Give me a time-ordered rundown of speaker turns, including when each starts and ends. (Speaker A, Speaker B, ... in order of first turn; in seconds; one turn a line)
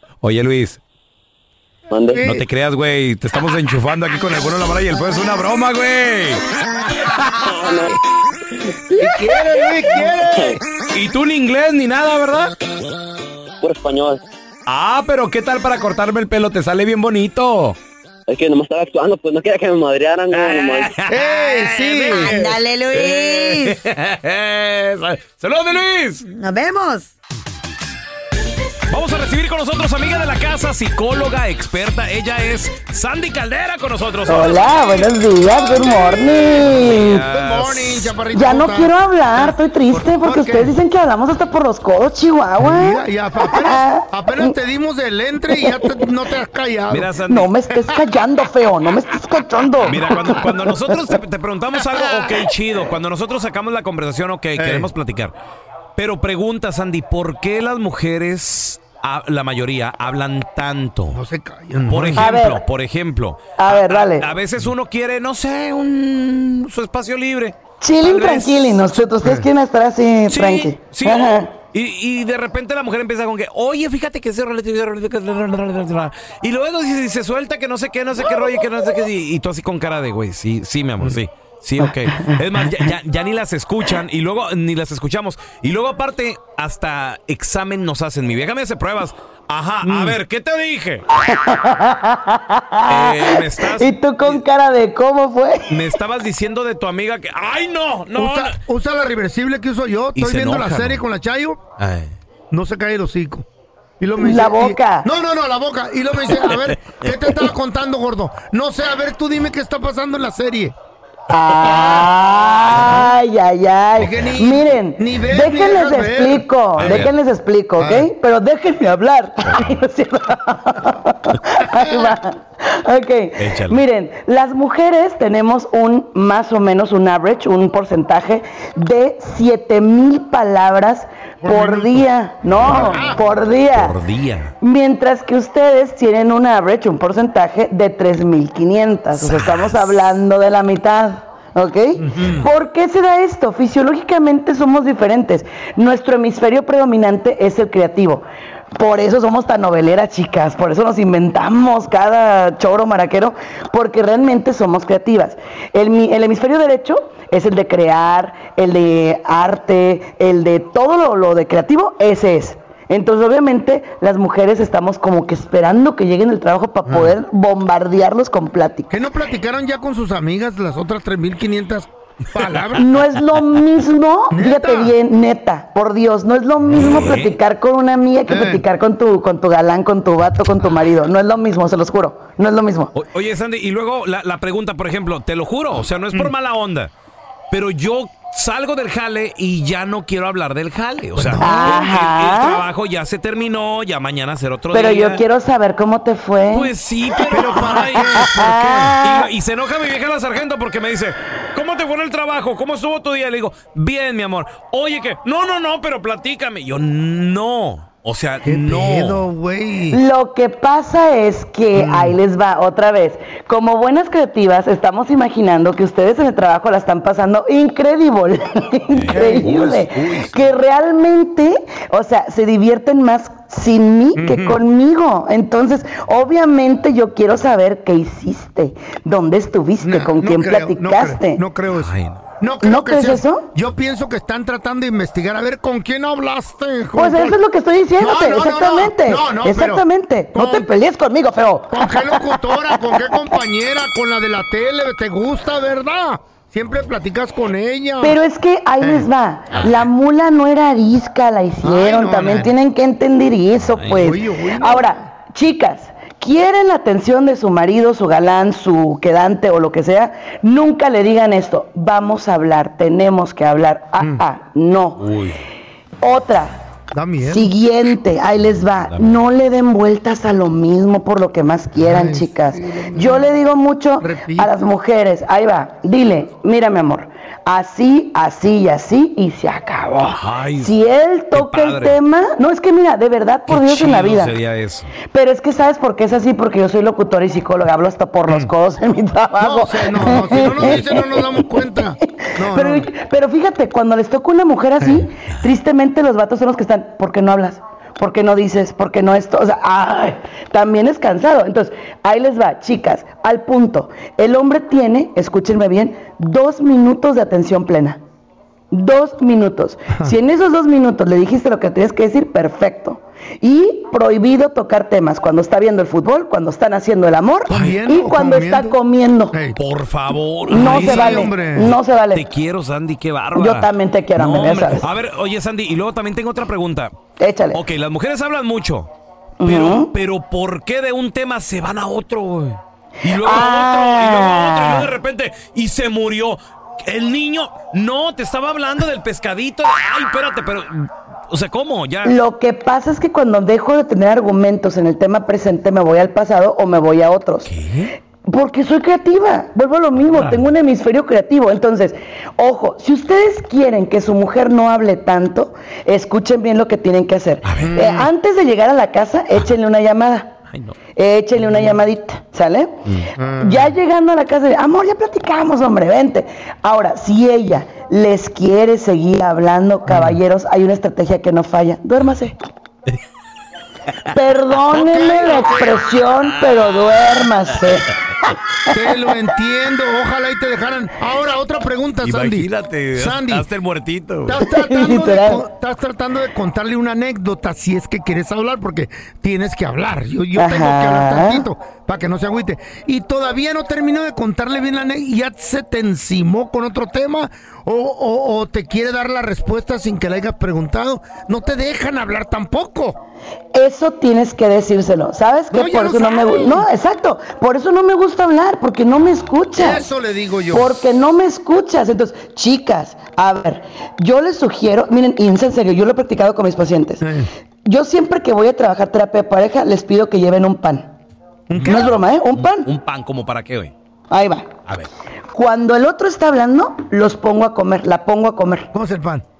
Speaker A: 0.2-0.8
Speaker B: 1.9-2.2
Speaker C: 2.1-2.5
Speaker A: 2.2-6.4
Speaker B: 7.4-7.9
Speaker C: 8.9-10.6
Speaker B: 10.3-10.6
Speaker A: 10.9-12.6
Speaker B: 13.6-14.2
Speaker A: 14.7-17.8
Speaker B: 18.3-20.9
Speaker A: 20.3-26.2
Speaker C: 21.1-22.4
Speaker D: 22.1-23.8
Speaker D: 26.2-27.1
Speaker A: 28.9-34.8
Speaker E: 34.3-37.2
Speaker A: 36.7-38.1
Speaker C: 37.2-40.8
Speaker E: 38.3-44.5
Speaker C: 42.6-47.1
Speaker E: 45.5-45.9
Speaker A: 46.9-47.5
Speaker E: 47.3-50.1
Speaker C: 47.7-48.0
Speaker A: 49.8-55.3
Speaker C: 54.6-54.9
Speaker A: 56.0-61.2
Speaker C: 61.1-62.3
Speaker A: 61.9-69.0
Speaker E: 62.2-62.6
Speaker E: 63.6-64.3
Speaker E: 67.8-71.5
Speaker C: 69.2-69.5
Speaker A: 70.3-91.0
Speaker C: 89.8-90.2
Speaker E: 91.2-95.8
Speaker A: 92.9-94.4
Speaker A: 95.7-98.6
Speaker C: 98.2-101.6
Speaker A: 100.2-101.0
Speaker A: 101.8-102.1
Speaker C: 102.5-103.5
Speaker C: 104.0-110.8
Speaker E: 104.2-105.1
Speaker E: 111.3-134.0
Speaker C: 112.7-113.1
Speaker C: 114.0-117.1
Speaker A: 116.8-117.1
Speaker C: 117.8-118.1
Speaker A: 123.4-123.8
Speaker C: 131.4-133.2
Speaker A: 133.7-134.5
Speaker E: 134.6-168.9
Speaker A: 139.2-139.7
Speaker C: 142.0-142.5
Speaker C: 166.9-167.2
Speaker C: 168.9-172.9
Speaker E: 172.8-182.9
Speaker C: 174.3-174.9
Speaker A: 176.8-177.4
Speaker C: 178.3-178.7
Speaker A: 182.9-186.9
Speaker A: 187.5-195.2
Speaker C: 191.2-191.8
Speaker E: 191.4-192.6
Speaker E: 194.7-196.7
Speaker A: 196.5-198.3
Speaker C: 197.3-199.0
Speaker E: 198.2-199.3
Speaker A: 199.0-209.3
Speaker C: 208.4-210.0
Speaker E: 209.9-231.4
Speaker C: 211.7-212.2
Speaker A: 218.9-220.5
Speaker C: 219.1-219.6
Speaker C: 224.2-224.6
Speaker C: 229.8-237.4
Speaker A: 231.8-232.2
Speaker E: 232.6-233.5
Speaker E: 236.9-243.3
Speaker C: 238.0-240.7
Speaker C: 241.7-248.2
Speaker E: 248.0-265.0
Speaker C: 248.8-249.1
Speaker A: 249.5-249.8
Speaker C: 251.6-252.5
Speaker A: 253.7-254.1
Speaker C: 253.8-255.1
Speaker A: 265.0-265.4
Speaker E: 266.0-266.6
Speaker C: 266.9-267.5
Speaker E: 267.2-284.4
Speaker A: 268.4-269.2
Speaker C: 271.8-273.4
Speaker C: 274.0-274.5
Speaker A: 280.1-280.8
Speaker A: 281.3-282.0
Speaker A: 283.5-284.9
Speaker E: 285.1-291.5
Speaker C: 289.4-292.9
Speaker A: 290.1-290.9
Speaker E: 292.1-308.0
Speaker C: 294.8-295.1
Speaker E: 308.7-319.4
Speaker C: 317.5-318.8
Speaker A: 317.5-317.8
Speaker C: 319.3-319.6
Speaker A: 319.6-326.9
Speaker C: 320.5-321.8
Speaker E: 320.5-322.3
Speaker E: 323.3-324.9
Speaker E: 327.2-327.6
Speaker A: 327.5-328.9
Speaker E: 329.4-329.9
Speaker A: 329.4-342.2
Speaker E: 333.1-334.9
Speaker E: 342.0-347.5
Speaker A: 347.5-347.9
Speaker E: 348.3-360.4
Speaker A: 350.1-350.4
Speaker A: 357.4-357.8
Speaker C: 357.6-358.1
Speaker A: 360.5-360.8
Speaker E: 361.0-362.9
Speaker C: 363.2-363.7
Speaker E: 363.4-372.4
Speaker E: 374.1-379.1
Speaker C: 374.7-375.8
Speaker A: 376.2-377.0
Speaker C: 378.7-383.5
Speaker A: 382.0-384.4
Speaker C: 384.3-403.0
Speaker E: 384.4-385.4
Speaker E: 390.4-391.5
Speaker E: 403.5-409.9
Speaker C: 405.5-406.7
Speaker C: 409.6-410.8
Speaker E: 410.5-417.0
Speaker C: 417.0-417.3
Speaker E: 417.6-420.9
Speaker C: 421.5-421.9
Speaker A: 421.5-423.7
Speaker E: 421.6-422.7
Speaker E: 424.1-424.6
Speaker E: 425.3-428.7
Speaker C: 428.7-429.2